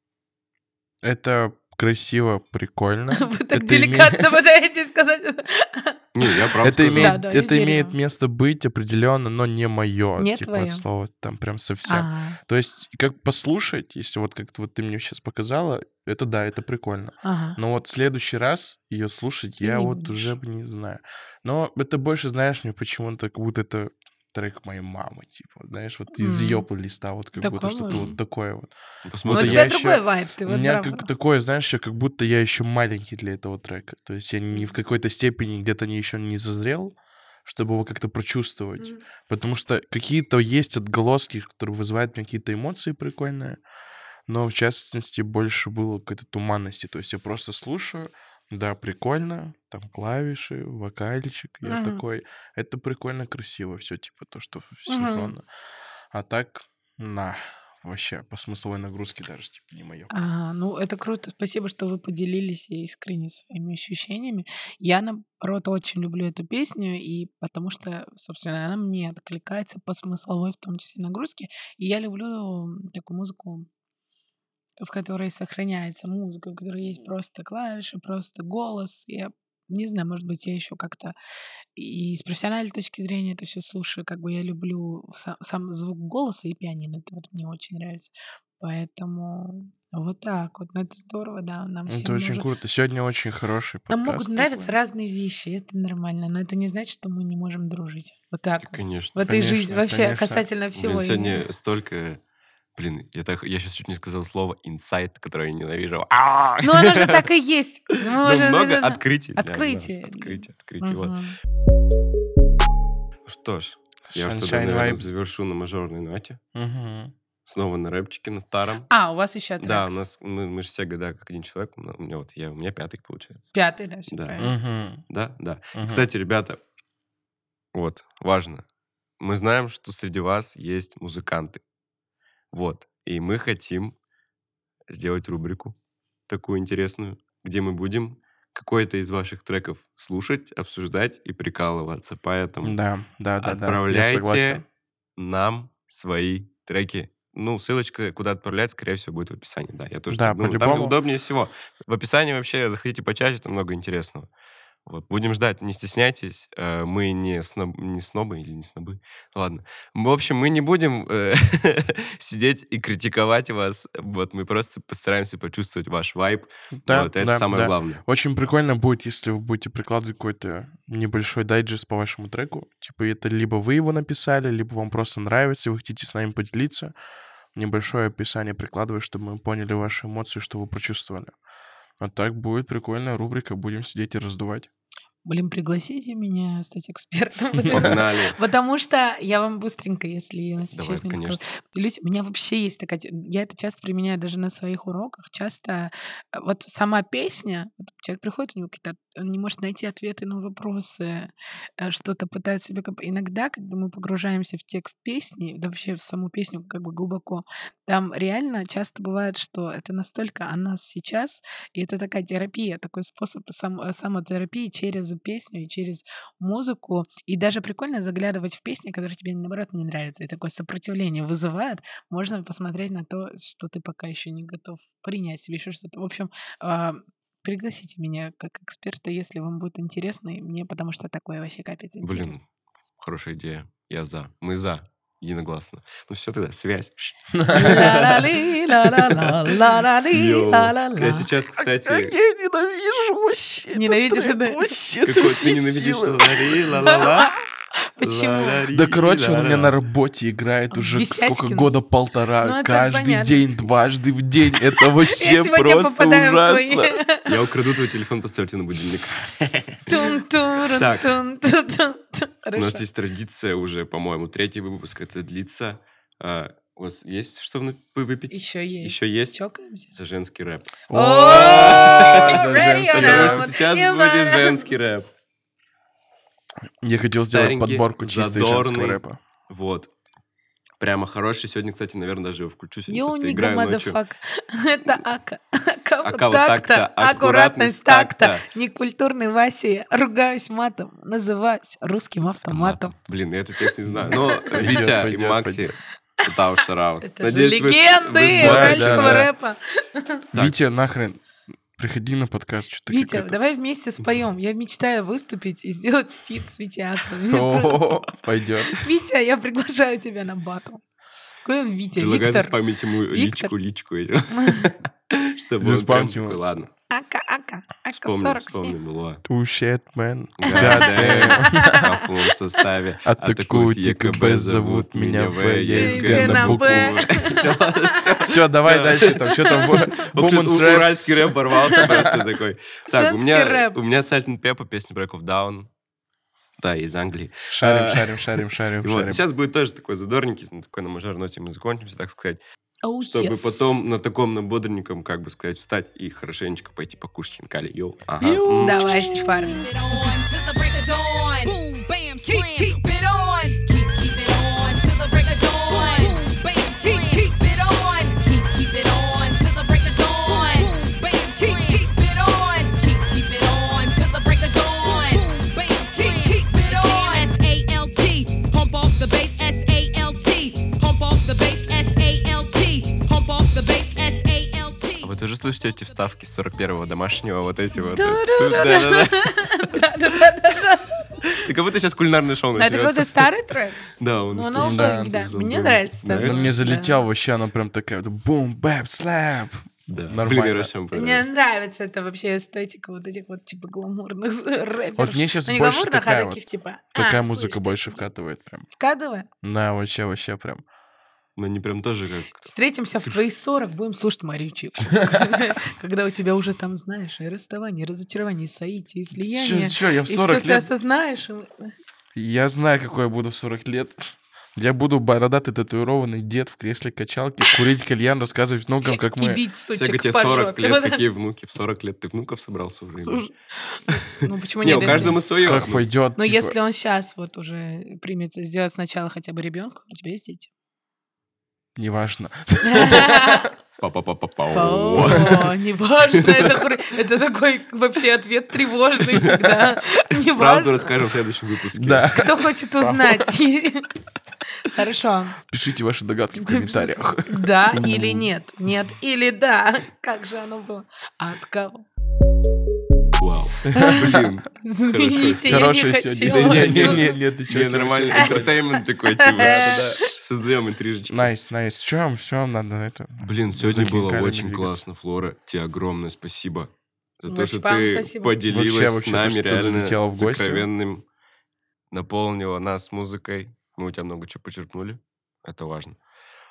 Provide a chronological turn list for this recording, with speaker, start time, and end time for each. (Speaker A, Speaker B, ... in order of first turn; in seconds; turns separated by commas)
Speaker A: 1.0-4.4, Speaker B: 3.1-6.0, Speaker C: 6.1-7.2, Speaker B: 6.5-8.0, Speaker A: 6.6-28.7, Speaker B: 10.2-10.8, Speaker B: 11.8-12.4, Speaker B: 17.2-17.6, Speaker B: 19.6-20.3, Speaker B: 26.1-26.7, Speaker B: 27.4-28.1, Speaker C: 27.9-28.1, Speaker C: 29.0-29.7, Speaker A: 29.2-43.6, Speaker B: 29.3-31.1, Speaker A: 44.3-55.4, Speaker B: 51.6-52.0, Speaker B: 54.9-55.3, Speaker A: 56.1-60.1, Speaker B: 60.1-73.7, Speaker B: 74.8-81.1, Speaker B: 81.8-92.5, Speaker A: 91.9-94.7, Speaker B: 93.9-101.5, Speaker C: 98.6-99.2, Speaker A: 99.2-100.4, Speaker C: 100.8-102.2, Speaker C: 102.7-107.3, Speaker B: 106.6-111.4, Speaker C: 108.0-111.2, Speaker C: 113.2-116.4, Speaker A: 114.1-115.1, Speaker A: 116.5-117.1, Speaker C: 117.4-118.9, Speaker B: 118.9-119.9, Speaker C: 119.6-123.5, Speaker B: 123.5-124.5, Speaker C: 124.1-124.5, Speaker A: 124.4-125.0, Speaker C: 125.1-126.6, Speaker A: 125.7-126.1, Speaker C: 127.7-128.6, Speaker C: 129.2-131.6, Speaker C: 132.5-133.9, Speaker C: 134.9-135.8, Speaker C: 136.3-142.8, Speaker A: 142.6-144.6, Speaker C: 143.4-144.6, Speaker C: 145.2-154.3, Speaker A: 150.1-151.0, Speaker C: 154.8-168.0, Speaker A: 166.7-176.9, Speaker A: 177.5-181.3, Speaker A: 182.0-184.7, Speaker B: 185.2-232.4, Speaker C: 187.7-188.4, Speaker C: 190.7-191.4, Speaker C: 232.0-232.4, Speaker C: 233.0-238.2, Speaker A: 237.3-238.2, Speaker B: 237.5-241.3, Speaker C: 240.1-242.2, Speaker A: 241.6-246.6, Speaker B: 243.7-244.8, Speaker C: 245.0-247.3, Speaker B: 246.9-247.3, Speaker B: 248.0-248.7, Speaker C: 248.0-249.7, Speaker A: 248.7-256.9, Speaker B: 250.7-251.8, Speaker B: 252.4-253.6, Speaker B: 254.8-257.4, Speaker C: 257.2-260.1, Speaker B: 259.9-262.8, Speaker C: 260.6-261.1, Speaker C: 262.5-269.4, Speaker B: 268.3-269.9, Speaker C: 269.9-270.7, Speaker A: 270.9-273.5, Speaker B: 270.9-274.7, Speaker C: 271.2-275.1, Speaker A: 276.8-279.2, Speaker C: 277.2-279.9, Speaker C: 280.8-284.0, Speaker B: 282.9-292.9, Speaker C: 286.0-288.4, Speaker C: 292.5-299.3, Speaker A: 293.9-295.6, Speaker B: 294.1-294.7, Speaker B: 297.0-300.2, Speaker A: 298.3-299.3, Speaker A: 300.3-301.2, Speaker A: 301.7-303.4, Speaker B: 302.9-308.1, Speaker A: 307.3-308.9, Speaker B: 308.6-310.8, Speaker B: 311.4-313.5, Speaker C: 311.9-316.7, Speaker B: 314.3-314.7, Speaker A: 315.6-316.4, Speaker B: 316.9-318.8, Speaker C: 317.9-319.2, Speaker A: 319.2-321.9, Speaker C: 320.4-335.7, Speaker B: 320.4-321.9, Speaker A: 323.0-327.5, Speaker B: 325.7-328.0, Speaker A: 328.2-331.9, Speaker B: 332.9-333.8, Speaker C: 336.6-342.4, Speaker A: 337.5-339.2, Speaker B: 342.8-343.8, Speaker C: 343.0-348.8, Speaker A: 348.2-349.4, Speaker B: 348.6-350.1, Speaker D: 349.3-375.1, Speaker B: 366.7-367.3, Speaker C: 375.0-379.5, Speaker B: 377.8-381.4, Speaker C: 381.3-383.3, Speaker B: 382.6-387.0, Speaker C: 384.0-386.5, Speaker A: 384.6-390.7, Speaker C: 389.9-391.3, Speaker B: 390.9-398.0, Speaker A: 395.0-396.4, Speaker A: 396.9-398.7, Speaker B: 398.8-399.3, Speaker A: 399.4-400.6, Speaker C: 401.4-402.4, Speaker B: 402.4-411.7, Speaker A: 405.0-405.4, Speaker A: 409.3-410.7, Speaker A: 412.1-414.0, Speaker A: 414.6-419.4, Speaker B: 418.8-421.0, Speaker C: 419.7-423.2, Speaker B: 423.0-425.2, Speaker C: 424.6-425.8, Speaker A: 424.6-426.6, Speaker B: 426.2-430.5, Speaker A: 431.8-433.4, Speaker B: 432.6-433.5, Speaker C: 433.8-435.4, Speaker B: 434.5-441.1, Speaker A: 435.0-435.3, Speaker C: 440.3-442.1, Speaker A: 441.8-443.3, Speaker B: 442.1-443.9, Speaker B: 444.6-445.4, Speaker A: 445.5-448.3, Speaker B: 446.4-451.9, Speaker C: 453.2-455.7, Speaker B: 453.7-457.2, Speaker A: 453.8-454.1, Speaker A: 455.4-458.5, Speaker C: 456.2-461.3, Speaker B: 458.2-459.8, Speaker A: 459.4-459.8, Speaker A: 461.1-464.8, Speaker C: 463.2-471.0, Speaker B: 467.3-468.4, Speaker A: 468.5-470.7, Speaker C: 471.9-476.0